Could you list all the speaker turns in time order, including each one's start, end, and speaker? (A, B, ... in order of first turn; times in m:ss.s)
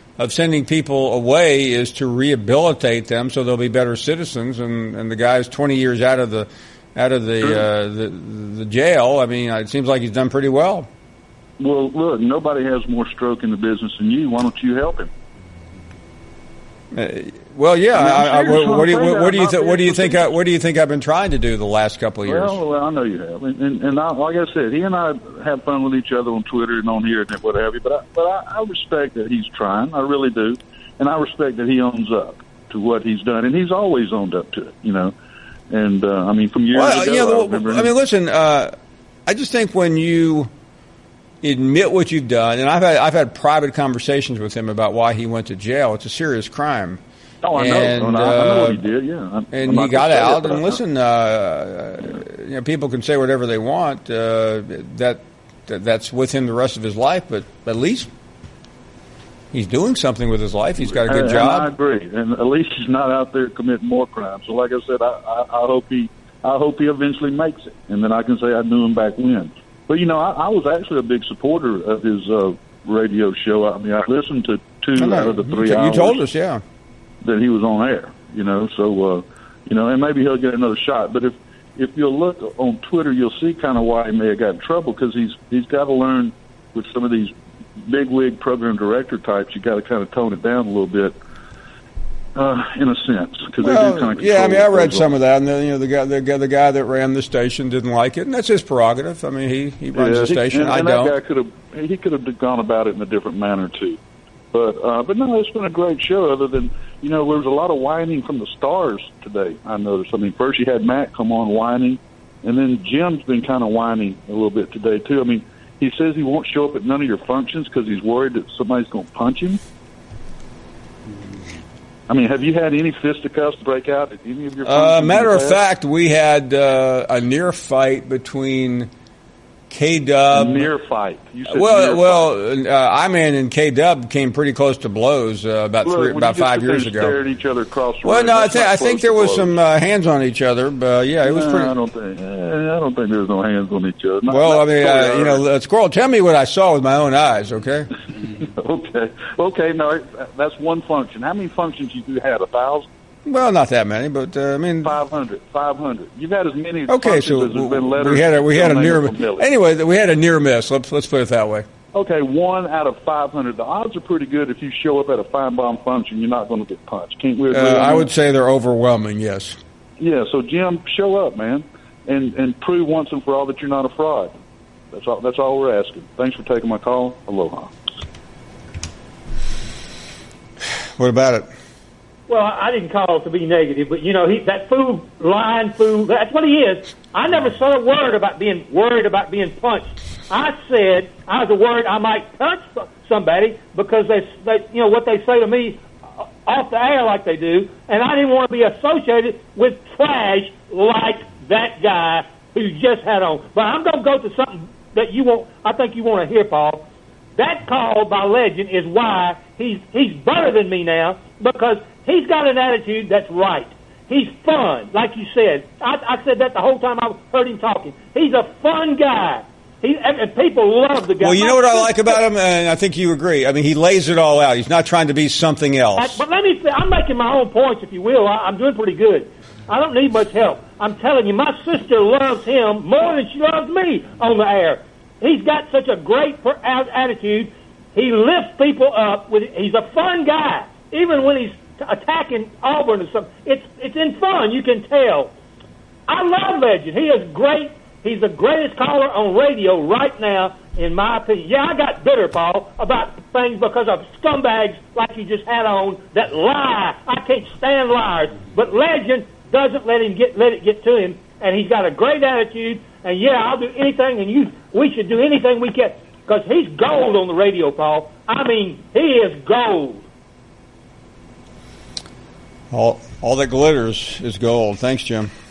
0:00.2-0:10.9 A
0:07.4-0:07.7 B
0:11.6-0:15.1 B
0:16.9-0:22.6 A
0:17.9-0:20.3 B
0:22.2-0:35.1 B
0:35.7-0:37.9 B
0:36.7-0:38.7 A
0:39.3-0:40.5 A
0:41.4-0:47.0 A
0:47.4-0:50.8 B
0:47.5-0:48.8 A
0:49.5-0:58.1 A
0:59.5-1:01.7 A
1:00.8-1:16.2 B
1:15.0-1:16.6 A
1:17.2-1:31.2 B
1:32.4-1:35.1 B
1:33.6-1:41.2 A
1:39.9-1:44.0 B
1:44.5-1:59.6 B
2:02.1-2:05.6 B
2:04.6-2:08.9 A
2:09.7-2:10.7 A
2:10.3-2:12.3 B
2:11.5-2:17.2 A
2:15.8-2:19.5 B
2:18.0-2:21.7 A
2:21.2-2:25.4 B
2:24.3-2:27.9 A
2:28.6-2:32.9 B
2:33.2-2:34.9 A
2:34.8-2:39.4 B
2:36.9-2:41.6 A
2:41.9-2:48.1 B
2:47.5-2:49.6 A
2:50.0-2:54.3 B
2:54.9-2:57.7 B
3:01.0-3:01.5 A
3:02.3-3:15.8 C
3:16.4-3:42.2 C
3:41.2-3:46.2 A
3:46.0-4:05.3 C
4:06.1-4:30.0 C
4:32.7-4:35.3 A